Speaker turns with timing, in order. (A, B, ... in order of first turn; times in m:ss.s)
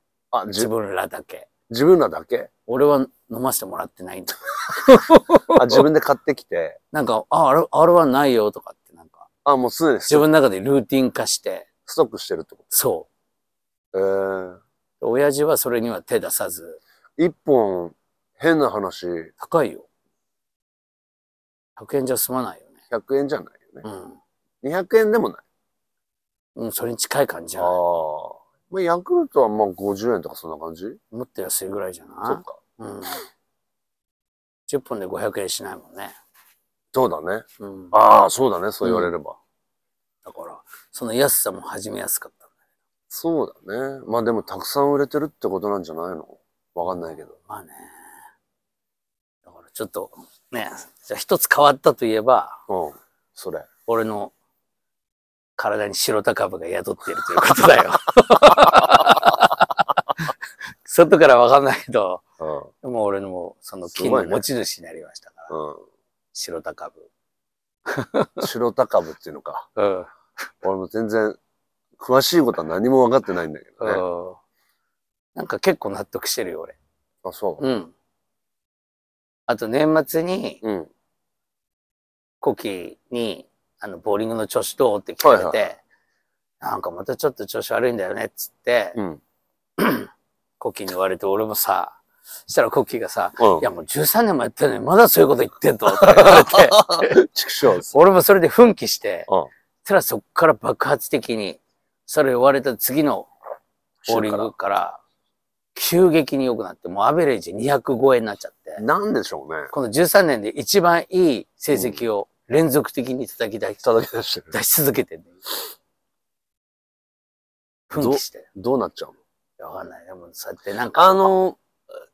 0:00.3-0:00.7 A
0:00.5-0:01.5 B
0:01.7-0:02.5 A
0:02.7-0:05.8 B
0:05.5-0:06.8 A
0:06.9-0:09.3 B
0:09.4-0:10.3 A
0:10.1-0:11.7 B
0:11.8-0:12.7 A
0:12.7-0:13.1 B
0:13.9-0:14.6 A
0:15.0-0:16.8 B
0:17.2-0:19.3 A
0:19.4-0:19.8 B
0:21.8-0:22.7 B
0:22.9-0:23.8 A
0:23.8-0:24.2 B
0:24.6-0:25.4 A
0:26.6-0:27.8 B
0:27.6-0:31.0 A
0:31.1-0:33.2 B
0:32.2-0:32.6 A
0:34.7-0:36.1 B
0:36.9-0:39.4 A
0:37.6-0:37.9 B
0:38.8-0:39.1 B
0:40.2-0:42.5 B
0:43.1-0:47.3 A
0:47.3-0:48.2 B
0:49.5-0:52.6 B
0:52.7-0:53.7 A
0:53.8-0:54.3 B
0:55.6-1:00.3 B
0:58.5-0:59.1 A
1:00.8-1:02.2 B
1:02.4-1:02.7 A
1:02.8-1:05.5 B
1:03.9-1:04.4 A
1:05.5-1:05.8 A
1:06.3-1:07.1 B
1:07.9-1:08.5 B
1:08.4-1:09.7 A
1:09.8-1:10.1 B
1:10.6-1:11.4 A
1:12.0-1:14.0 A
1:13.8-1:14.4 B
1:15.3-1:16.8 B
1:17.2-1:17.6 A
1:17.6-1:17.9 B
1:19.5-1:20.6 B
1:20.6-1:20.9 A
1:22.4-1:25.8 B
1:25.2-1:25.7 A
1:26.6-1:29.0 B
1:29.8-1:30.1 B
1:30.6-1:37.2 B
1:33.4-1:33.6 A
1:36.0-1:37.9 A
1:37.8-1:39.3 B
1:39.8-1:43.3 B
1:44.0-1:44.5 A
1:44.0-1:45.0 B
1:45.7-1:48.8 B
1:48.8-1:49.7 A
1:49.7-1:53.8 B
1:51.7-1:52.0 A
1:53.8-1:54.5 A
1:54.5-1:55.4 B
1:57.9-1:58.5 B
1:57.9-1:59.2 A
1:59.6-2:01.3 B
2:00.9-2:01.6 A